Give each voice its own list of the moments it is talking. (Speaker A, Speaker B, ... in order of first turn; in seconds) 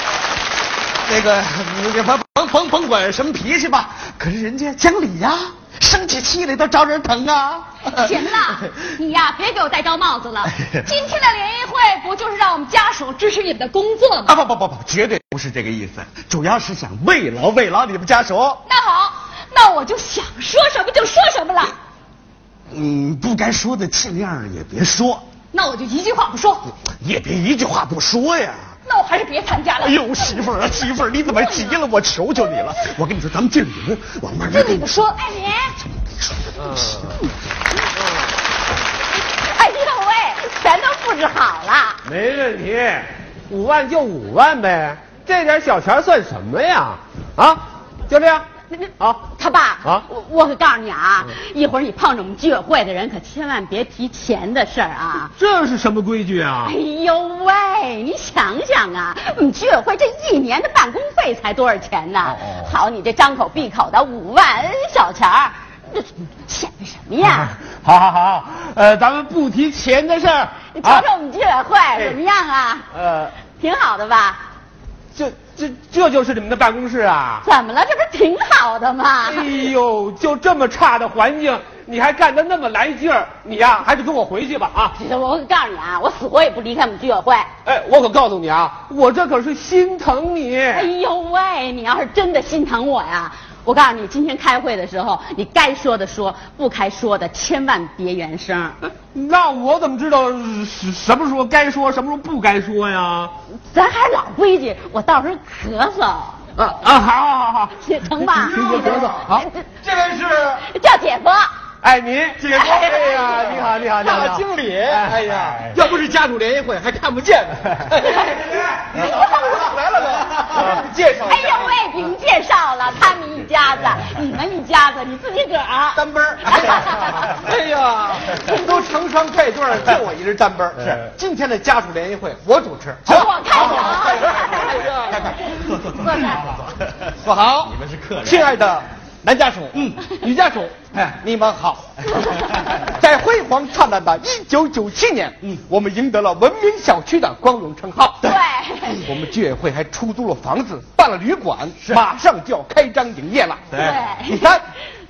Speaker A: 1.0-8.9, 10.4-10.9, 14.2-18.6, 22.7-25.2, 26.8-28.7, 29.8-35.1, 35.8-37.3, 112.9-113.7, 118.5-119.7, 120.3-120.7, 126.6-127.0, 133.9-138.6, 139.8-140.1, 153.7-154.0
Speaker B: 7.8-14.4, 18.6-21.8, 25.5-26.7, 28.9-31.8, 34.4-35.8
Speaker C: 36.6-37.0, 42.0-48.5, 55.4-56.7, 62.3-62.6, 67.5-71.0, 72.9-73.3, 75.1-77.4, 79.2-85.0, 87.6-90.9, 99.0-103.3, 106.5-107.8, 108.4-109.4, 111.8-113.4, 114.0-115.5
Speaker D: 39.4-42.0, 48.7-55.3, 56.6-67.5, 70.7-72.9, 73.5-74.4, 77.4-79.5, 84.9-87.5, 90.7-98.8, 103.7-106.4, 107.8-109.6, 110.6-111.5, 112.5-114.4, 121.1-127.4, 133.1-134.7, 148.2-149.0, 153.8-154.5
Speaker E: 108.4-110.6, 112.4-121.7, 125.9-135.4, 137.2-148.3, 148.9-154.6